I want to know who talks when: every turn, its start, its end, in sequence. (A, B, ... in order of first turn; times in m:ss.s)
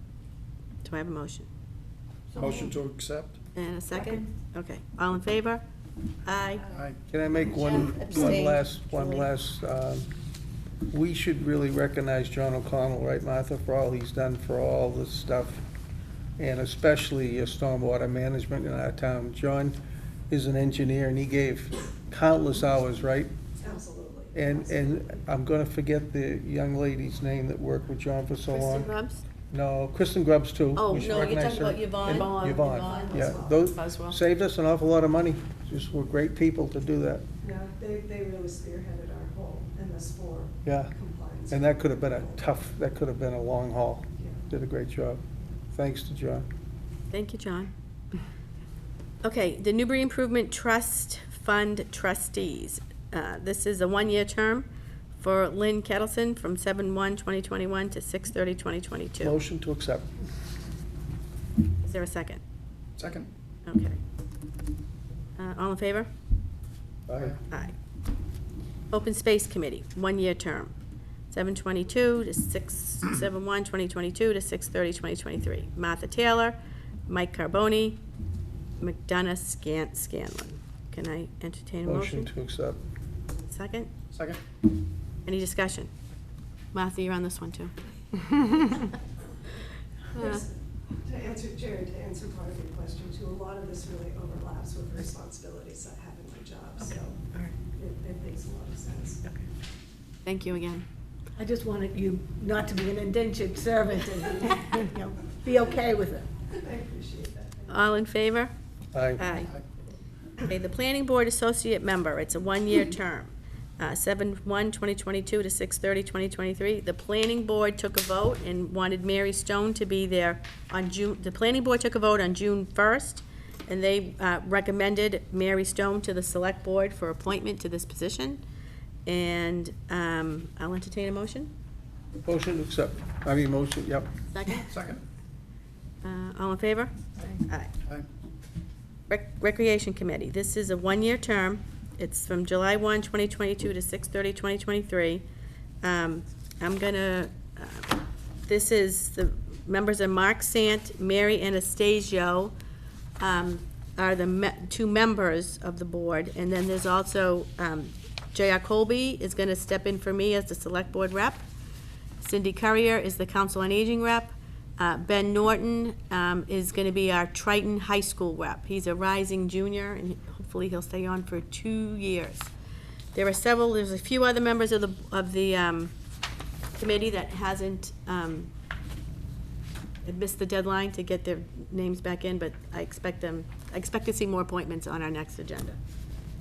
0:00.8-0:01.5 A
0:02.3-0:03.4 B
0:02.4-0:02.6 C
0:03.6-0:05.6 A
0:04.0-0:04.2 C
0:06.2-0:06.7 A
0:06.7-0:07.0 B
0:07.1-0:10.1 D
0:07.4-0:09.3 A
0:10.9-0:15.6 D
0:16.4-0:19.8 D
0:20.3-0:23.3 D
0:23.6-0:24.8 E
0:24.3-0:28.9 D
0:28.5-0:29.2 A
0:29.5-0:37.2 D
0:30.8-0:34.2 A
0:32.1-0:33.6 E
0:37.4-0:42.4 E
0:40.6-0:40.9 D
0:41.5-0:45.2 D
0:45.7-0:46.5 D
0:47.1-0:47.7 A
0:49.2-0:59.4 A
0:59.2-1:00.1 D
1:01.8-1:02.4 A
1:03.0-1:03.3 B
1:03.7-1:04.0 A
1:05.4-1:06.1 A
1:07.1-1:07.4 D
1:07.5-1:07.8 A
1:08.9-1:10.7 A
1:11.3-1:18.0 A
1:18.8-1:22.3 A
1:21.8-1:22.8 D
1:23.5-1:23.9 A
1:24.1-1:24.4 B
1:25.3-1:25.9 A
1:26.7-1:28.9 A
1:30.1-1:30.4 A
1:30.2-1:37.2 E
1:37.7-1:39.2 E
1:40.2-1:40.8 A
1:41.4-1:46.4 C
1:46.5-1:47.7 E
1:47.7-1:48.5 A
1:48.9-1:49.3 D
1:49.2-1:49.5 A
1:49.4-1:49.6 B
1:50.4-2:08.4 A
2:09.1-2:11.5 A
2:12.2-2:14.1 D
2:14.3-2:14.7 A
2:14.7-2:15.0 B
2:16.0-2:16.9 A
2:17.5-2:17.7 A
2:19.1-2:25.2 A
2:25.8-2:32.5 A
2:33.2-2:41.4 A
2:42.2-2:52.5 A
2:53.1-2:55.9 A
2:56.8-2:58.5 A
3:00.0-3:05.8 A